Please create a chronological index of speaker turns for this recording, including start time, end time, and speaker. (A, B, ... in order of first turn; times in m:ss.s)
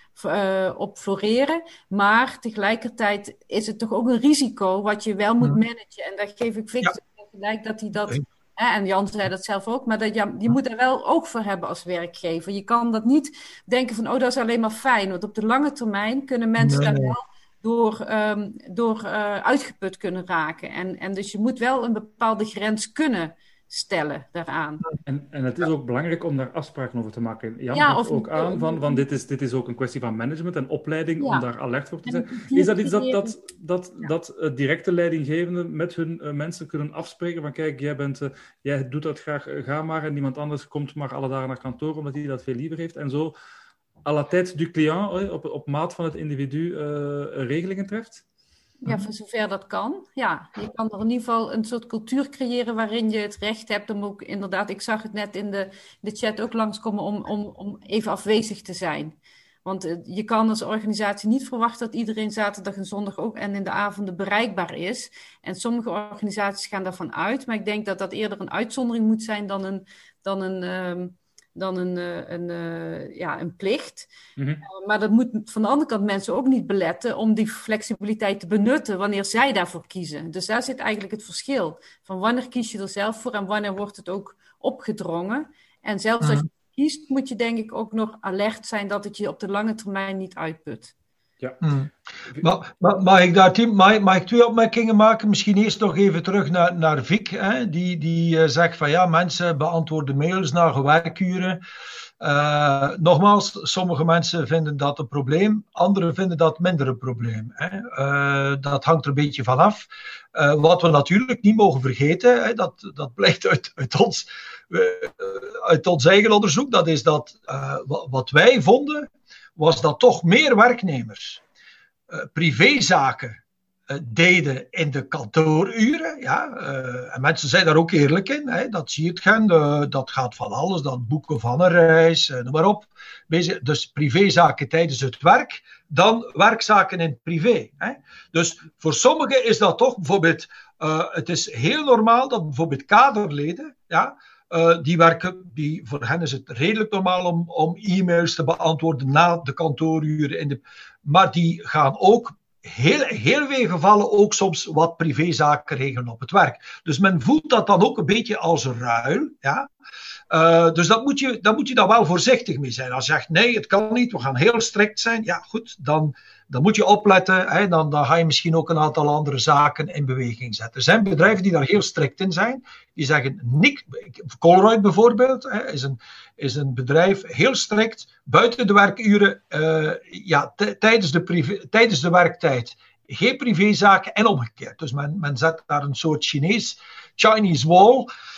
0:00.2-0:24.9 A
0:16.6-0:17.2 B
0:25.0-0:43.3 C
0:27.7-0:29.0 A
0:32.0-0:33.3 A
0:44.0-0:48.2 C
0:48.8-1:14.1 A
1:14.4-1:14.6 C
1:14.6-1:30.9 A
1:31.6-1:31.9 B
1:32.4-1:41.6 B
1:42.2-2:01.4 B
2:02.1-2:39.7 B
2:40.3-3:08.1 B